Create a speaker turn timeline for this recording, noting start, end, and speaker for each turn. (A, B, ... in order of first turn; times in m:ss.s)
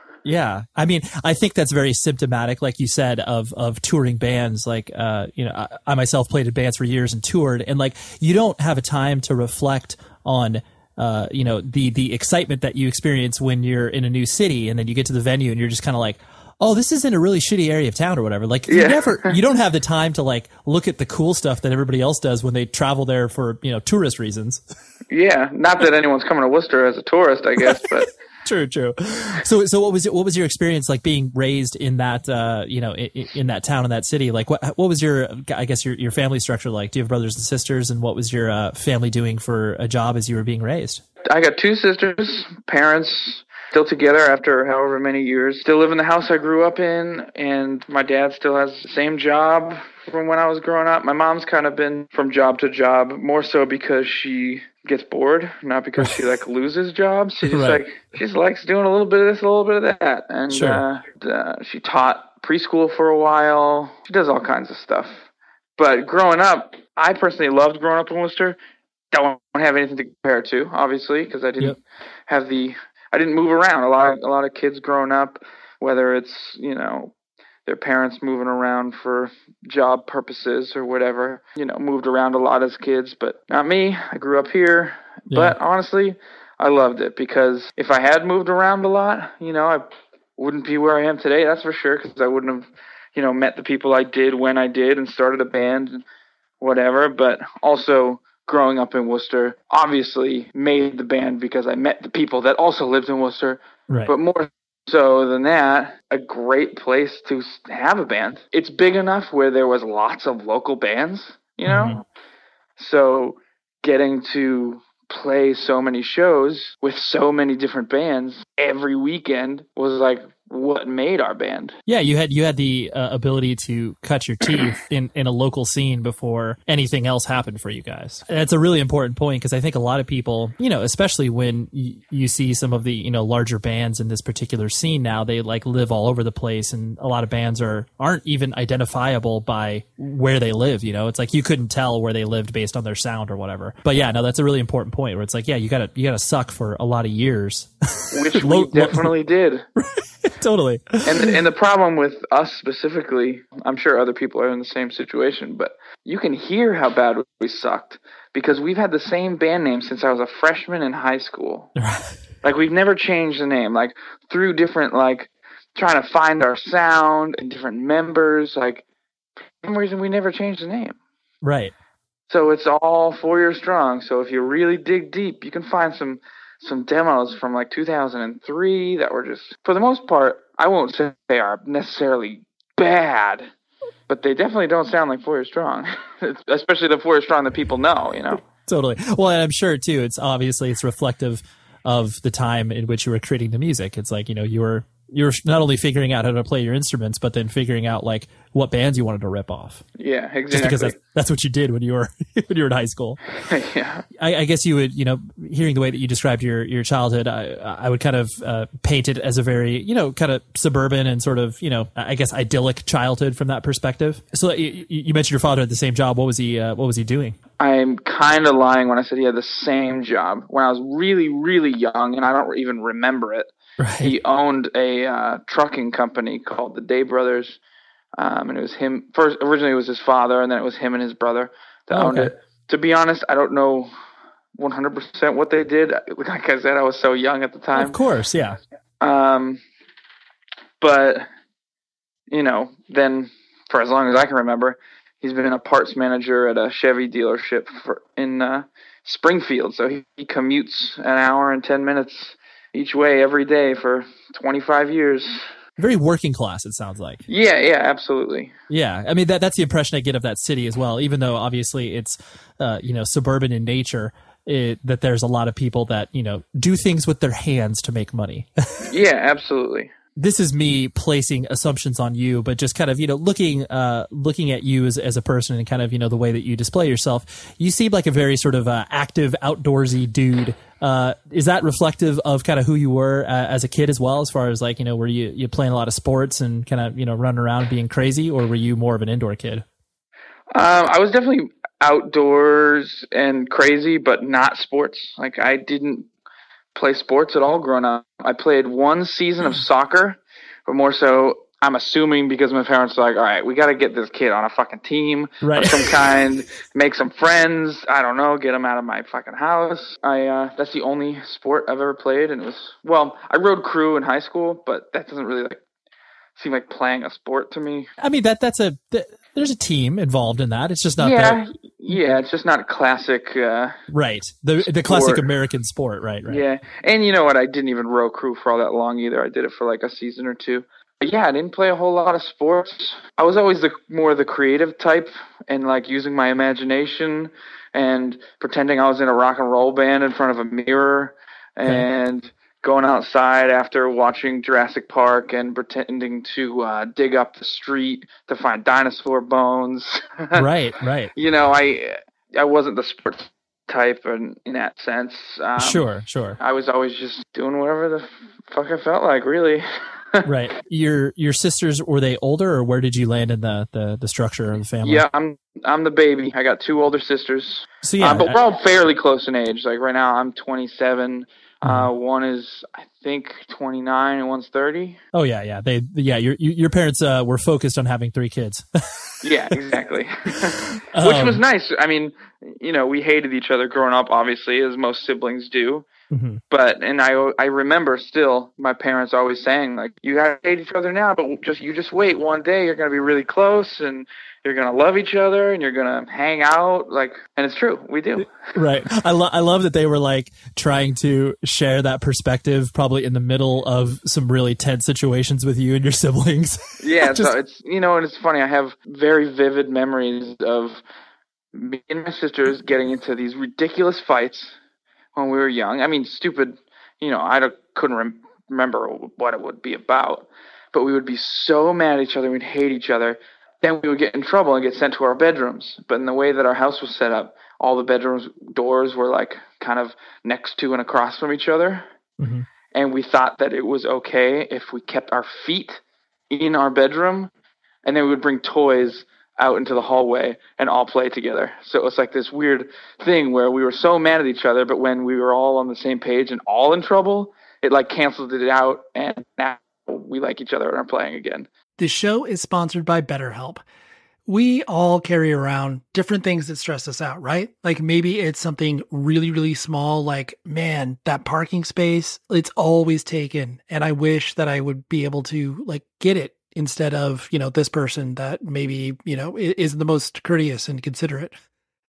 0:00.2-0:24.6 A
0:18.7-0:19.4 B
0:25.1-0:28.1 B
0:28.4-0:41.0 A
0:41.3-1:05.2 B
0:57.5-0:57.8 A
1:00.5-1:00.8 A
1:05.8-1:08.6 B
1:09.1-1:11.8 B
1:12.3-1:17.1 B
1:17.7-1:29.9 B
1:25.3-1:25.6 A
1:30.4-1:36.0 B
1:36.6-1:52.0 B
1:51.7-1:52.0 A
1:52.8-2:01.8 B
2:01.9-2:29.1 A
2:28.1-2:29.6 B
2:29.8-2:31.4 A
2:31.0-2:41.7 B
2:41.8-2:42.1 A
2:42.4-2:48.8 B
2:49.6-2:51.0 B
2:51.4-2:51.7 A
2:52.3-3:03.5 B
3:04.1-3:08.4 B
3:08.6-3:19.8 A
3:20.0-3:21.0 B
3:20.5-3:23.2 A
3:23.4-3:24.0 B
3:24.2-3:37.4 A
3:37.6-3:43.5 B
3:43.8-3:44.2 A
3:44.0-3:47.6 B
3:48.2-3:53.9 B
3:51.9-3:52.3 A
3:54.6-3:58.0 B
3:57.8-3:58.6 A
3:59.0-3:59.6 B
4:00.8-4:01.3 B
4:02.3-4:15.5 B
4:15.8-4:17.2 A
4:17.3-4:18.5 B
4:18.7-4:28.9 A
4:28.9-4:29.9 B
4:30.2-4:49.6 A
4:50.5-4:56.1 B
4:56.8-5:15.6 B
5:05.4-5:06.0 A
5:16.4-5:17.9 B
5:18.0-5:21.4 A
5:21.0-5:23.8 B
5:23.9-5:26.4 A
5:24.6-5:25.2 B
5:26.3-5:50.4 B
5:50.3-5:51.1 A
5:51.2-5:55.8 B
5:55.6-5:56.4 A
5:56.4-6:00.3 B
6:00.2-6:05.0 A
6:04.8-6:15.0 B
6:07.8-6:08.4 A
6:11.6-6:11.9 A
6:15.1-6:19.1 A
6:19.2-6:25.9 B
6:20.9-6:21.4 A
6:26.1-6:26.4 A
6:26.5-6:38.3 B
6:38.5-6:47.3 A
6:46.8-6:50.8 B
6:51.5-6:54.5 B
6:55.2-7:11.8 B
7:12.2-7:12.5 A
7:12.7-7:17.3 B
7:17.8-7:31.5 B
7:31.8-7:33.6 C
7:34.3-7:51.4 C